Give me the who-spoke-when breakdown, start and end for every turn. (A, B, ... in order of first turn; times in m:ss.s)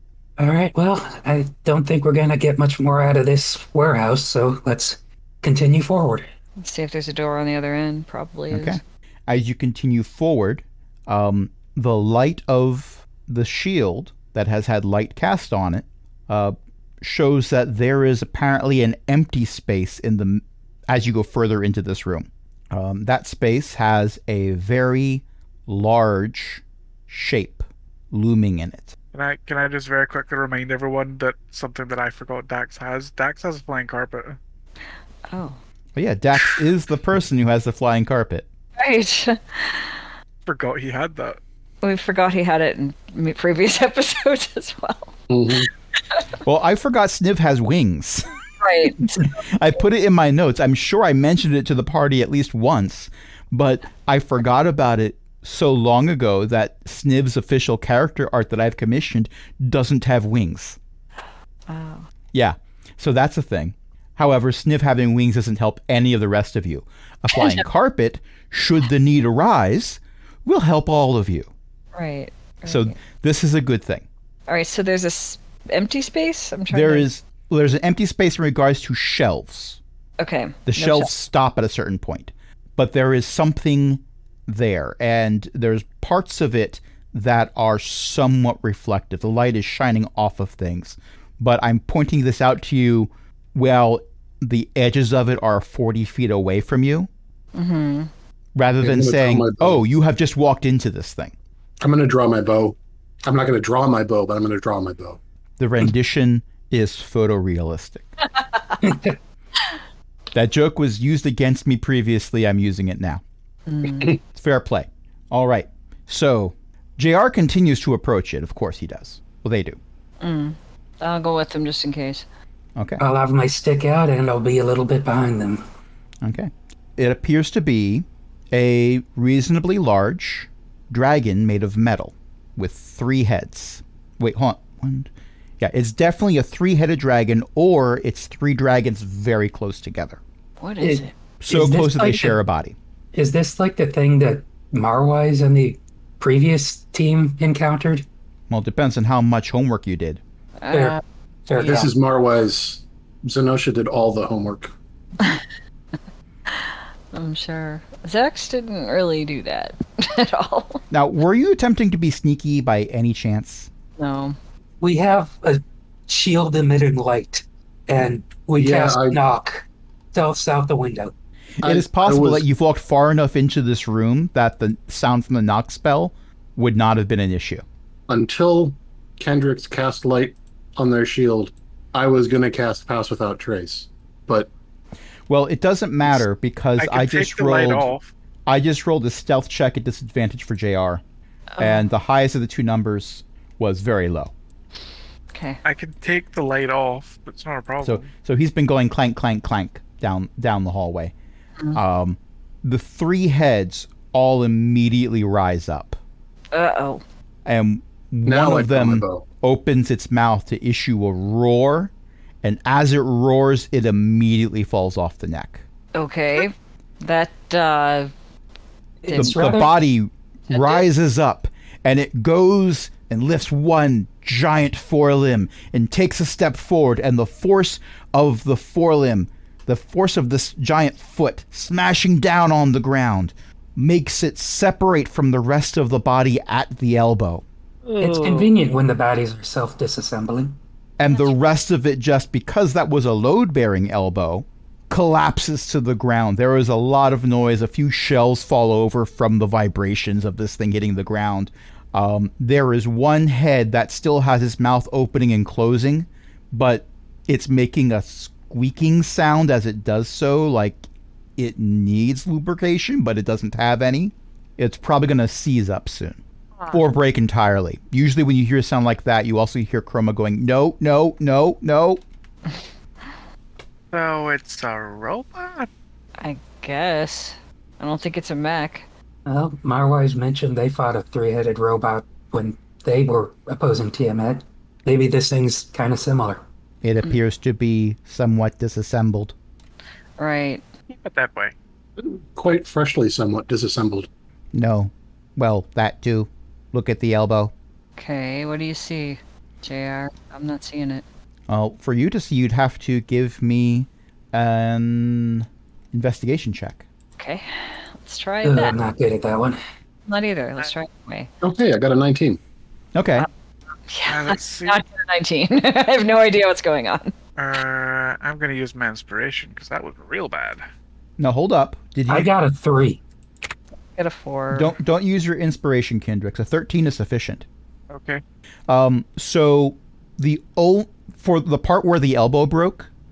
0:00.4-0:06.3 A
0:06.6-0:08.8 B
0:08.5-0:29.0 C
0:29.1-0:34.4 D
0:35.3-0:35.6 B
0:36.0-0:38.5 C
0:38.8-0:40.0 B
0:40.5-0:41.4 D
0:41.8-0:45.1 B
0:45.3-0:45.7 E
0:46.4-0:48.3 C
0:48.6-0:49.3 B
0:48.8-1:00.8 C
1:01.7-1:02.1 B
1:02.3-1:11.5 C
1:07.4-1:07.6 B
1:11.9-1:13.0 B
1:12.7-1:14.1 C
1:14.5-1:17.1 B
1:16.7-1:19.8 C
1:20.2-1:21.1 B
1:20.7-1:37.1 C
1:37.5-1:38.1 B
1:38.6-1:41.3 C
1:38.8-1:39.8 E
1:41.8-1:45.2 E
1:45.6-1:48.0 C
1:48.8-1:49.2 A
1:50.3-1:53.2 C
1:53.7-1:54.2 B
1:54.3-1:59.8 C
2:00.2-2:02.2 B
2:02.8-2:03.0 C
2:03.0-2:05.6 A
2:06.2-2:20.2 C
2:20.6-2:21.1 B
2:20.8-2:22.4 A
2:21.4-2:22.8 C
2:23.1-2:28.1 A
2:28.5-2:30.2 C
2:30.6-2:31.0 B
2:30.7-2:31.0 A
2:31.5-2:31.9 A
2:31.6-2:31.9 B
2:31.6-2:34.7 E
2:35.2-2:35.4 B
2:36.5-2:40.8 B
2:40.9-2:43.7 C
2:44.0-2:44.4 B
2:44.8-2:51.1 A
2:48.6-2:49.2 E
2:51.6-2:52.4 E
2:51.6-2:57.6 C
2:58.1-3:04.5 E
3:05.3-3:07.9 C
3:06.8-3:08.1 D
3:08.5-3:11.0 C
3:11.5-3:11.8 B
3:11.6-3:14.3 C
3:15.3-3:15.6 B
3:15.6-3:18.1 D
3:17.8-3:21.1 C
3:21.7-3:26.0 C
3:26.5-3:27.0 B
3:27.4-3:31.9 C
3:28.3-3:29.3 E
3:32.4-3:35.6 C
3:36.0-3:38.1 B
3:39.0-3:39.7 A
3:39.1-3:39.7 B
3:39.2-3:57.4 C
3:40.5-3:40.8 B
3:57.9-3:58.5 D
3:58.0-4:00.6 A
4:01.0-4:20.8 C
4:21.4-4:26.2 C
4:26.6-4:26.8 D
4:26.7-4:32.0 C
4:33.9-4:35.7 D
4:36.2-4:38.9 B
4:39.3-4:46.4 A
4:46.8-4:49.4 C
4:50.2-4:50.6 B
4:50.9-4:51.5 D
4:52.0-4:54.1 E
4:54.5-4:57.5 C
4:58.0-5:01.0 B
5:01.5-5:06.8 C
5:07.2-5:08.8 B
5:08.4-5:09.6 A
5:10.1-5:11.3 B
5:11.4-5:12.4 E
5:12.9-5:13.3 C
5:13.9-5:17.1 B
5:14.1-5:14.8 D
5:17.4-5:20.6 D
5:21.2-5:22.3 C
5:22.1-5:23.0 A
5:24.0-5:24.8 B
5:24.5-5:27.5 C
5:27.9-5:28.2 D
5:28.7-5:32.9 C